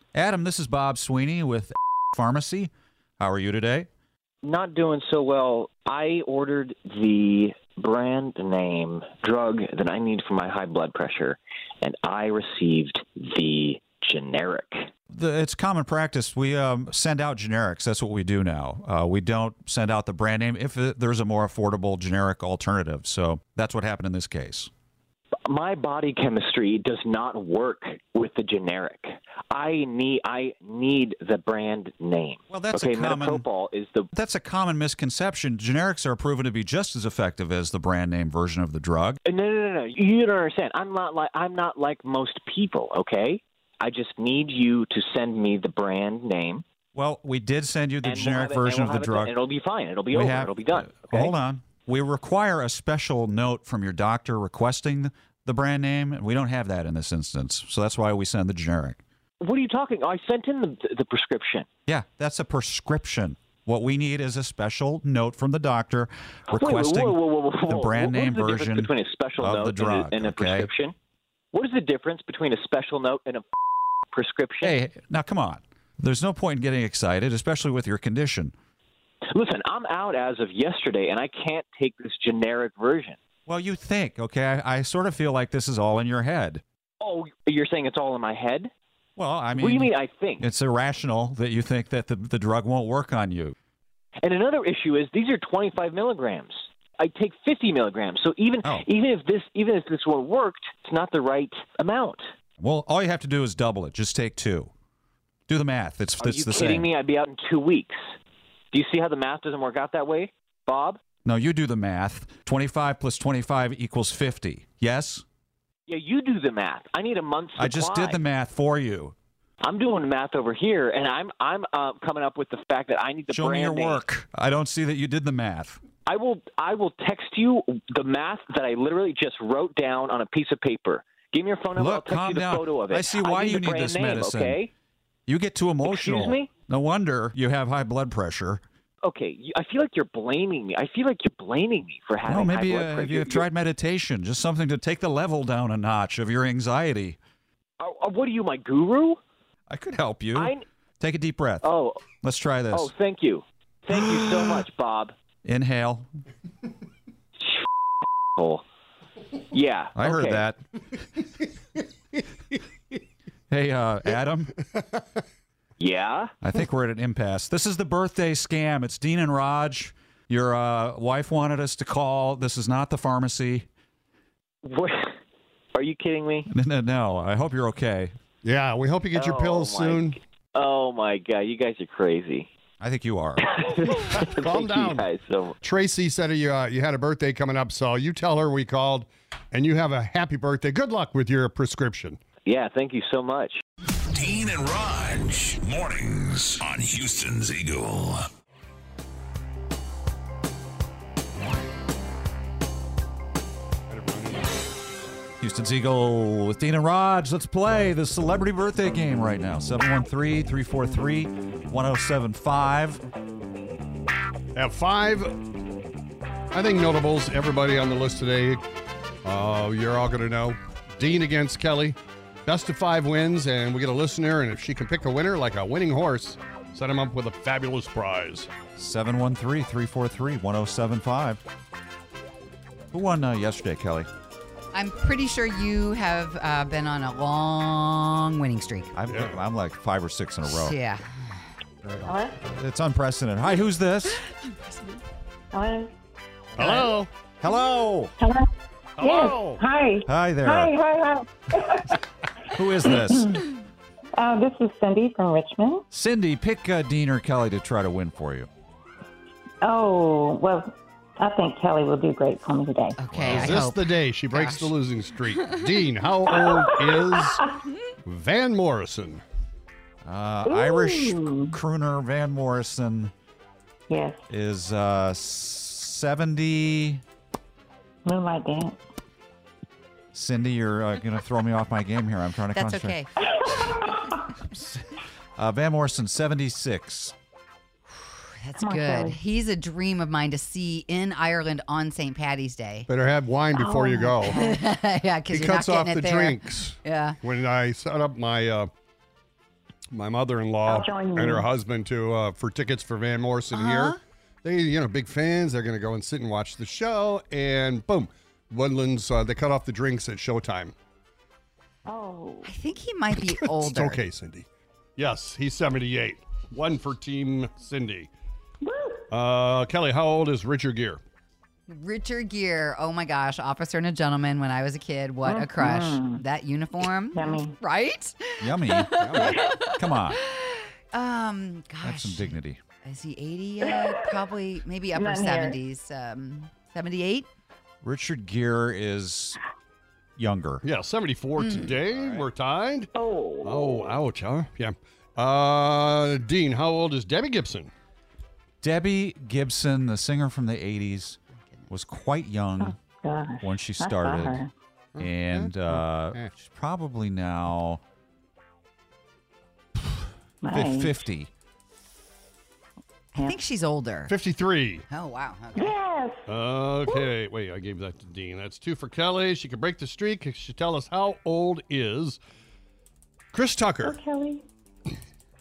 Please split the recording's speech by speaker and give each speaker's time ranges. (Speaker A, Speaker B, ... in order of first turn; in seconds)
Speaker A: 0.1-3.9, 15.1-24.7, 32.5-33.5, 34.1-39.2, 46.9-49.4, 50.1-59.0, 61.9-70.7, 74.6-78.5, 83.5-86.6, 89.2-93.5, 102.6-104.7, 105.5-106.9, 111.2-115.2, 117.6-119.1, 123.3-125.8, 131.8-134.6, 135.3-138.6, 142.2-147.2, 149.7-152.9, 153.9-154.2, 155.4-156.1, 159.9-160.6, 163.5-164.5, 166.4-173.7, 176.5-178.1, 182.8-183.5, 205.4-213.0, 228.8-231.4, 232.9-234.1, 238.9-240.8, 242.0-244.2, 247.4-248.1, 250.1-250.7, 252.5-253.4, 255.9-258.5, 263.1-263.5, 270.0-273.1, 274.3-277.0, 280.1-283.0, 284.5-284.9, 285.4-287.1, 328.4-329.0, 329.7-330.2, 331.8-332.6, 337.8-339.4, 340.2-340.6, 341.9-342.2, 348.6-351.2, 351.7-352.7, 353.4-354.4, 355.0-357.8, 360.5-361.3
Speaker B: 4.4-14.9, 25.5-34.1, 39.2-46.6, 48.0-51.3, 59.4-61.7, 66.5-70.9, 71.5-73.4, 74.1-74.8, 79.3-83.2, 87.0-88.7, 89.6-90.4, 94.2-102.3, 106.2-108.0, 108.7-111.0, 115.9-118.2, 119.6-124.0, 126.0-134.7, 135.8-136.5, 139.0-143.4, 147.8-149.2, 150.3-150.6, 151.6-152.0, 152.7-155.1, 158.4-158.6, 159.5-160.4, 165.8-166.3, 174.6-175.1, 175.7-176.5, 179.1-182.5, 183.5-185.5, 192.4-193.6
Speaker C: 178.4-180.2, 184.3-185.1, 185.6-192.2, 203.9-205.2, 214.5-215.4, 216.5-218.6, 219.2-228.5, 239.1-239.4, 246.6-247.1, 249.0-249.6, 263.2-267.4, 268.0-269.2, 292.9-294.4, 295.3-298.7, 299.9-310.7, 313.4-314.4, 315.0-318.1, 319.1-321.0, 329.0-329.4, 340.6-342.9, 343.4-347.7, 354.9-356.3, 364.1-364.8, 366.3-372.2, 373.3-373.9
Speaker D: 194.1-198.2
Speaker E: 234.7-238.9, 240.4-241.2, 244.6-245.0, 246.6-246.9, 263.0-264.7, 282.5-283.1, 288.0-292.9, 294.3-297.2, 303.5-304.0, 312.4-314.0, 321.7-337.3, 341.4-341.7, 363.1-364.1, 364.9-365.8
Speaker F: 242.0-242.3, 245.5-245.9, 248.2-248.5, 249.0-251.9, 252.8-253.4, 254.2-255.8, 259.6-263.0, 266.3-267.5, 270.4-271.5, 273.9-274.2, 278.0-278.8, 283.4-284.0, 288.6-289.2, 293.5-294.6, 300.6-301.4, 311.9-312.5, 318.6-319.1, 325.2-326.2, 327.1-327.6, 333.6-334.0, 334.9-335.6, 342.9-343.9, 352.6-354.5, 360.4-361.0, 365.5-366.2, 366.9-367.1, 373.8-374.4